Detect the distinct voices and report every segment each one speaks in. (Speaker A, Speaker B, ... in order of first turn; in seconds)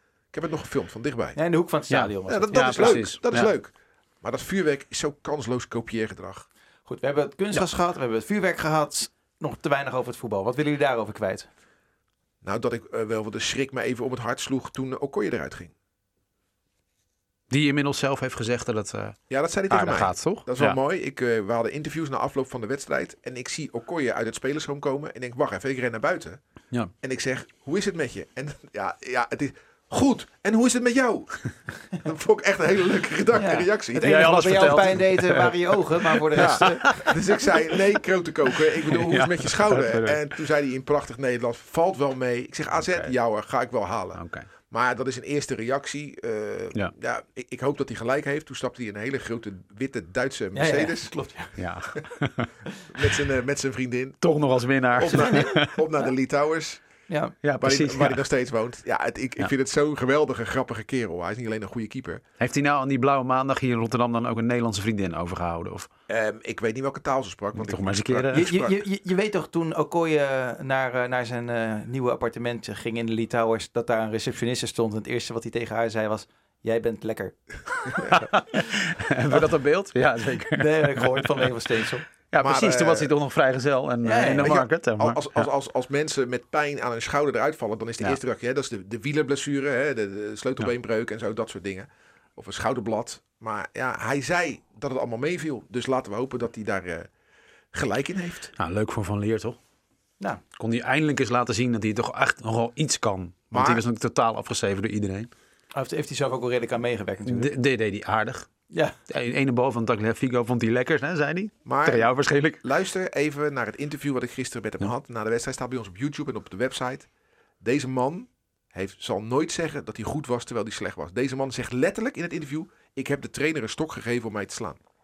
Speaker A: 0.3-1.4, 2.3-6.5, 12.4-15.7, 19.3-26.4, 27.0-34.2, 36.3-51.1, 52.9-54.2, 55.0-56.8, 57.6-62.2, 66.1-68.8, 82.4-83.1, 84.4-97.1, 97.7-98.5, 103.5-103.8, 111.7-112.1, 112.6-117.1, 117.6-124.8
Speaker B: 1.4-3.0, 6.9-11.5, 33.3-37.0, 50.5-51.5, 55.1-55.5, 57.1-57.4, 68.3-78.2, 80.5-82.0, 84.0-84.5, 105.7-107.5
Speaker C: 1.9-3.5, 17.5-19.2, 19.7-20.8, 34.0-37.2, 38.9-40.3, 42.8-43.1, 44.2-44.5, 51.6-52.5, 54.2-55.8, 57.4-58.2, 62.4-65.9, 67.5-68.5, 78.0-81.5, 82.3-85.5, 98.6-99.6, 100.6-105.3, 107.3-108.5, 109.1-112.6